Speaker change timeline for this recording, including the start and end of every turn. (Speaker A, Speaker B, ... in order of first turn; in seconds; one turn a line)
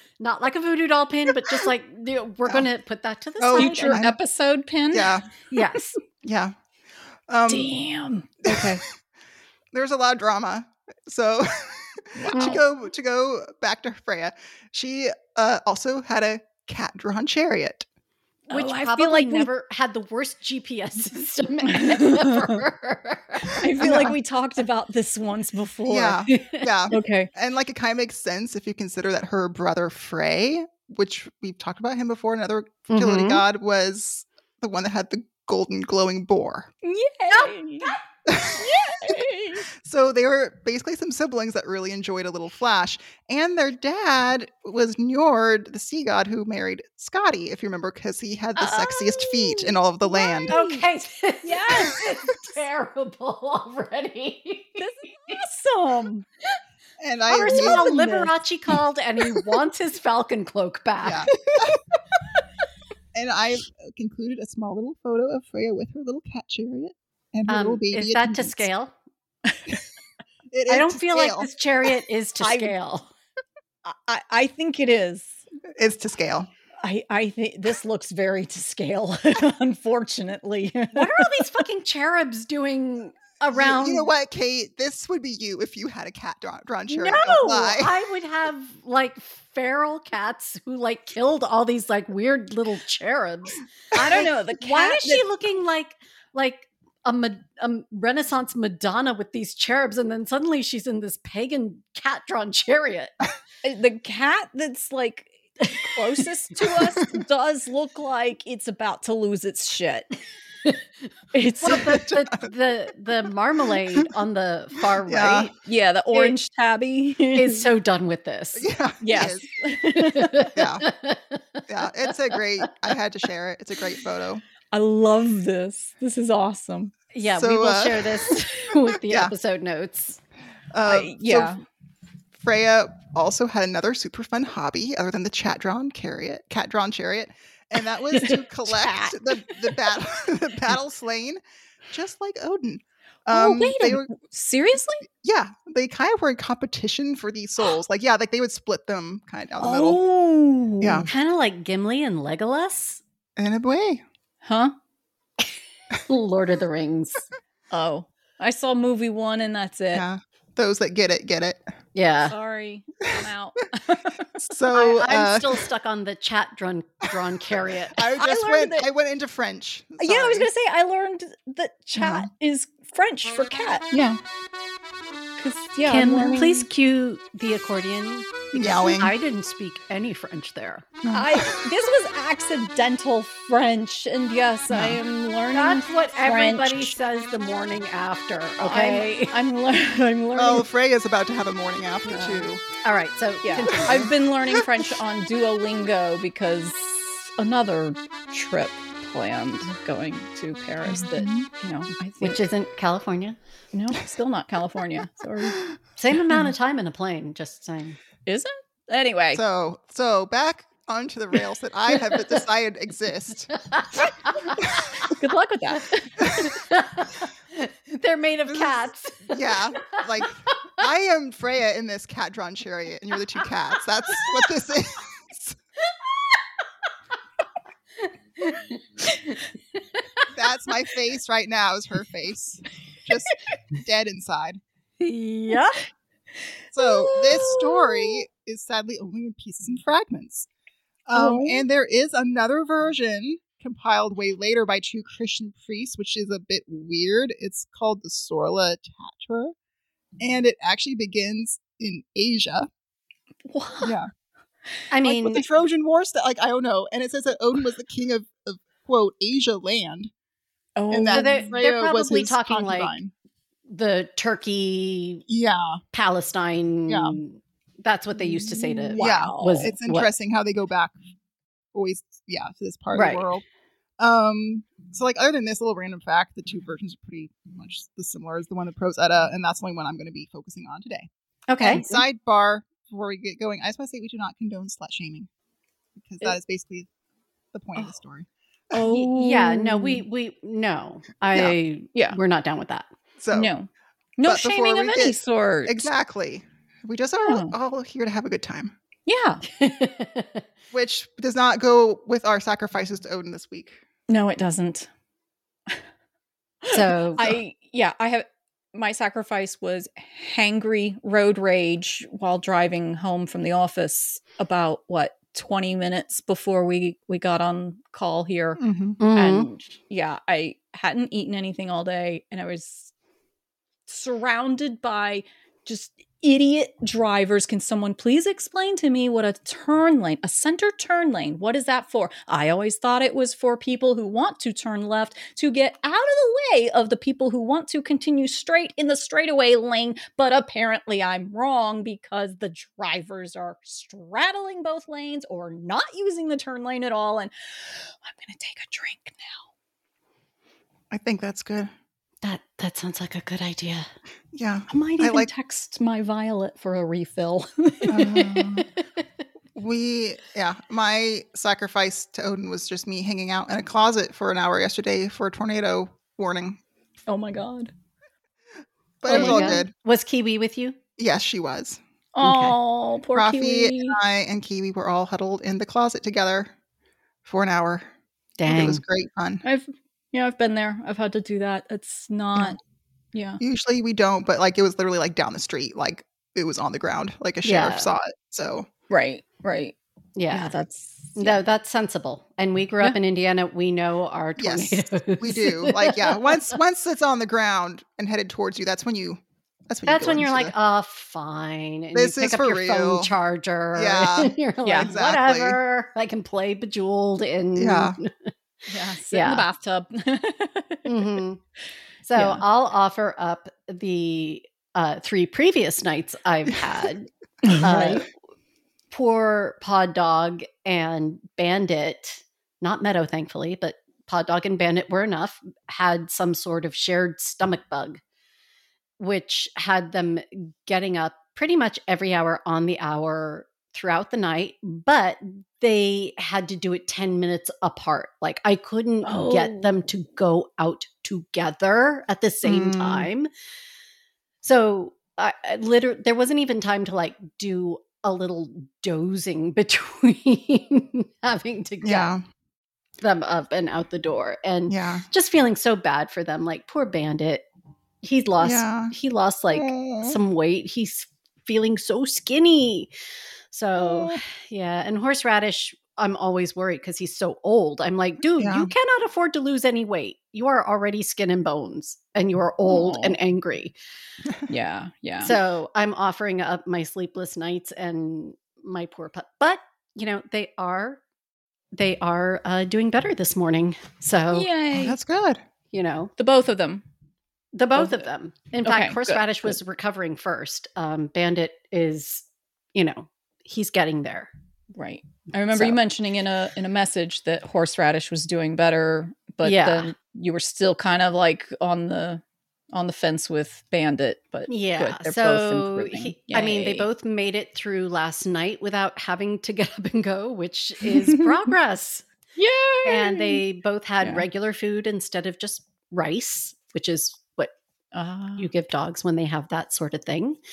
Speaker A: 0.2-4.0
Speaker B: 3.4-4.2
Speaker C: 3.5-5.8
Speaker B: 4.9-5.3
Speaker A: 5.5-6.0
Speaker B: 6.2-6.5
Speaker B: 7.3-7.7
Speaker C: 7.5-8.8
Speaker B: 8.4-8.8
Speaker B: 9.7-17.9
Speaker C: 12.2-12.6
Speaker A: 12.3-12.6
Speaker C: 18.5-19.5
Speaker A: 18.5-24.1
Speaker C: 21.7-22.5
Speaker C: 23.5-26.3
Speaker B: 23.8-24.1
Speaker B: 25.9-36.7
Speaker A: 26.3-26.7
Speaker C: 26.9-27.3
Speaker A: 32.9-33.4
Speaker C: 36.8-38.0
Speaker B: 38.2-38.6
Speaker C: 38.5-39.7
Speaker B: 39.8-50.6
Speaker C: 48.6-50.8
Speaker A: 50.5-55.4
Speaker C: 51.4-52.5
Speaker C: 54.8-56.3
Speaker B: 57.0-58.0
Speaker A: 57.3-61.3
Speaker C: 57.5-58.3
Speaker B: 61.0-61.8
Speaker B: 63.1-68.7
Speaker A: 67.5-68.9
Speaker B: 70.5-71.5
Speaker A: 70.7-73.1
Speaker C: 72.4-72.7
Speaker C: 73.8-75.4
Speaker B: 75.8-76.5
Speaker C: 76.8-81.4
Speaker A: 80.9-84.1
Speaker B: 83.5-87.9
Speaker A: 86.9-103.1
Speaker C: 93.9-95.2
Speaker C: 103.6-110.1
Speaker C: 111.3-112.0
Speaker A: 111.6-115.5
Speaker B: 111.7-112.5
Speaker B: 115.0-115.5
Speaker C: 115.6-117.7
Speaker A: 117.3-118.7
Speaker B: 118.5-119.5
Speaker C: 119.0-120.5
Speaker A: 119.9-121.6
Speaker B: 120.5-120.8
Speaker B: 121.7-124.4
Speaker C: 124.7-126.9
Speaker A: 127.1-130.2
Speaker B: 127.3-128.1
Speaker B: 130.7-131.5
Speaker C: 130.8-131.6
Speaker B: 132.4-144.1
Speaker C: 138.3-139.4
Speaker C: 143.3-145.0
Speaker B: 145.2-150.0
Speaker C: 149.6-151.1
Speaker B: 150.8-151.1
Speaker A: 151.1-153.0
Speaker B: 153.4-154.0
Speaker C: 154.4-154.7
Speaker A: 156.1-157.2
Speaker C: 157.7-160.0
Speaker B: 159.9-161.6
Speaker A: 161.9-162.3
Speaker C: 162.2-164.2
Speaker B: 164.4-165.6
Speaker A: 164.7-168.0
Speaker B: 167.9-170.5
Speaker C: 168.0-168.9
Speaker C: 170.0-173.9
Speaker B: 171.9-172.3
Speaker B: 173.9-174.2
Speaker C: 175.4-176.7
Speaker A: 175.8-180.9
Speaker B: 178.5-179.1
Speaker B: 181.0-181.6
Speaker C: 181.1-186.9
Speaker B: 184.7-185.0
Speaker A: 185.5-189.3
Speaker C: 188.6-190.7
Speaker B: 190.3-192.6
Speaker A: 192.1-194.1
Speaker C: 193.4-202.4
Speaker B: 200.8-201.5
Speaker A: 202.2-203.4
Speaker C: 203.7-205.6
Speaker A: 206.0-208.0
Speaker C: 208.2-209.4
Speaker B: 209.3-213.5
Speaker A: 213.5-214.7
Speaker B: 214.6-214.9
Speaker C: 215.0-216.2
Speaker A: 216.3-220.7
Speaker B: 218.5-225.6
Speaker A: 228.4-230.2
Speaker B: 230.3-234.6
Speaker A: 235.0-235.8
Speaker B: 236.7-240.5
Speaker C: 236.8-238.2
Speaker B: 241.1-249.5
Speaker C: 241.1-241.6
Speaker B: 250.2-252.7
Speaker C: 253.5-253.9
Speaker B: 253.8-254.1
Speaker A: 254.9-255.4
Speaker B: 255.0-260.1
Speaker C: 260.8-261.5
Speaker B: 260.9-263.1
Speaker A: 261.1-263.0
Speaker A: 263.7-265.2
Speaker B: 265.3-265.8
Speaker A: 265.9-270.1
Speaker B: 266.9-267.2
Speaker C: 268.2-269.7
Speaker B: 269.0-270.9
Speaker B: 271.7-273.4
Speaker A: 272.9-273.2
Speaker B: 274.0-281.1
Speaker A: 281.5-282.0
Speaker B: 281.6-285.3
Speaker B: 286.0-286.9
Speaker B: 287.5-288.3
Speaker C: 288.7-290.0
Speaker A: 288.8-292.9
Speaker B: 293.2-293.5
Speaker C: 293.3-295.9
Speaker B: 294.2-298.8
Speaker C: 297.2-297.5
Speaker C: 299.1-299.4
Speaker A: 299.5-300.4
Speaker B: 300.7-303.8
Speaker C: 304.1-304.9
Speaker C: 306.6-318.6
Speaker A: 306.7-307.4
Speaker B: 318.6-319.0
Speaker A: 319.0-319.5
Speaker C: 319.1-322.9
Speaker C: 323.9-349.4
Speaker B: 350.9-351.7
Speaker A: 352.2-353.9
Speaker B: 354.3-355.3
Speaker C: 354.7-358.5
Speaker B: 357.9-358.7
Speaker B: 359.5-366.6
Speaker C: 367.1-367.7
Speaker B: 369.0-369.7
Speaker A: 369.1-370.8
Speaker C: 369.1-369.6
Speaker B: 371.0-371.8
Speaker C: 372.1-374.0
Speaker A: 372.2-372.5
Speaker B: 373.1-376.5
Speaker B: 377.2-377.9
Speaker A: 378.4-378.8
Speaker B: 378.4-379.4
Speaker C: 379.4-382.6
Speaker C: 383.1-383.4
Speaker B: 383.4-388.7
Speaker A: 387.4-387.9
Speaker C: 388.9-389.7
Speaker A: 390.1-390.5
Speaker C: 390.3-391.4
Speaker A: 391.2-396.5
Speaker B: 394.4-400.5
Speaker A: 399.9-408.3
Speaker B: 401.9-403.1
Speaker B: 403.7-405.6
Speaker C: 404.6-404.9
Speaker B: 407.6-408.0
Speaker C: 408.7-410.9
Speaker A: 409.1-409.4
Speaker A: 410.9-411.4
Speaker A: 412.1-418.1
Speaker C: 412.1-412.4
Speaker C: 417.4-418.0
Speaker A: 418.9-428.0
Speaker A: 429.0-443.3
Speaker C: 439.0-439.7
Speaker B: 442.4-443.1
Speaker A: 444.4-452.1
Speaker B: 451.8-452.2
Speaker A: 453.0-457.4
Speaker B: 454.7-455.0
Speaker A: 458.0-462.9
Speaker B: 458.4-458.9
Speaker B: 459.5-460.2
Speaker A: 463.5-473.8
Speaker B: 463.8-464.2
Speaker B: 468.4-468.7
Speaker C: 472.6-473.2
Speaker C: 474.5-475.4
Speaker A: 475.2-481.0
Speaker A: 481.7-484.5
Speaker C: 484.3-485.0
Speaker B: 484.7-485.4
Speaker A: 485.7-486.1
Speaker C: 486.2-486.8
Speaker A: 487.5-494.3
Speaker C: 487.8-488.0
Speaker C: 488.6-489.6
Speaker C: 494.8-502.2
Speaker A: 495.5-495.8
Speaker A: 499.4-499.9
Speaker C: 502.7-506.9
Speaker A: 504.5-512.0
Speaker C: 510.8-511.3
Speaker C: 512.4-513.4
Speaker A: 512.8-517.5
Speaker C: 517.9-518.5
Speaker A: 518.4-520.4